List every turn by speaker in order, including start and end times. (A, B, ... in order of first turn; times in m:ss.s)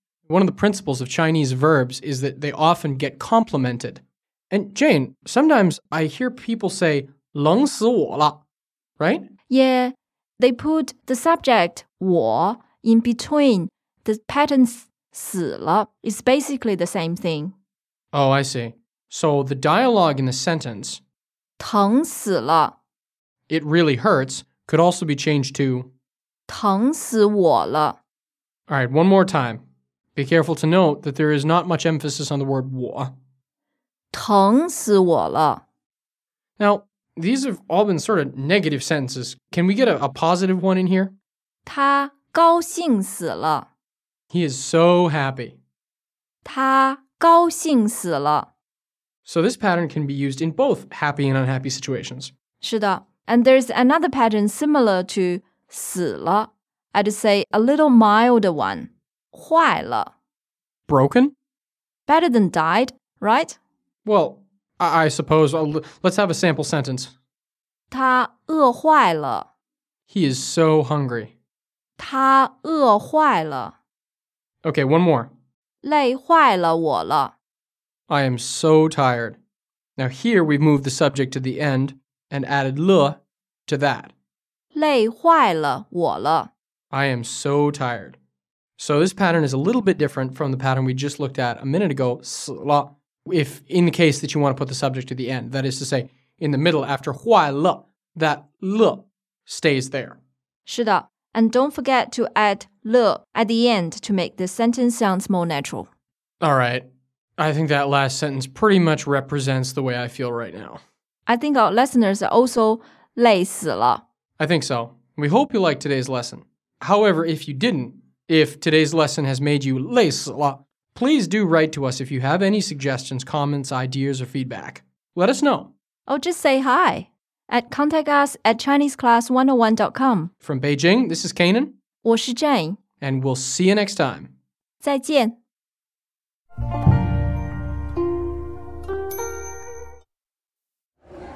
0:00.3-0:08.4 A
0:09.0-0:09.3 A
0:09.5-0:17.5 B
0:18.1-0:21.0 A
0:21.6-0:22.8 B
0:23.5-0:25.9 A
0:26.5-0:28.0 B
0:28.7-0:29.6 A
0:30.2-0:33.1 A
0:34.1-0:35.6 B
0:36.6-0:41.1 A
0:41.6-0:43.7 B
0:44.3-0:45.6 A
0:46.4-0:48.5 B
0:49.2-0:52.3 A
0:52.6-1:00.1 B
1:00.9-1:01.3 A
1:02.1-1:03.6 B
1:04.0-1:07.1 A
1:07.9-1:09.5 B
1:10.1-1:11.3 A
1:12.0-1:13.8 B
1:14.6-1:15.3 A
1:15.8-1:17.3 B
1:18.1-1:19.4 A
1:20.0-1:24.1 A
1:24.7-1:26.5 B
1:26.9-1:28.2 A
1:28.8-1:40.2 A
1:40.6-1:45.9 B
1:46.4-1:46.9 A
1:47.4-1:50.8 A
1:51.3-1:54.0 B
1:54.4-2:05.7 A
2:06.1-2:10.3 B
2:10.4-2:11.8 A
2:12.0-2:12.8 B
2:13.0-2:14.3 A
2:14.8-2:15.4 B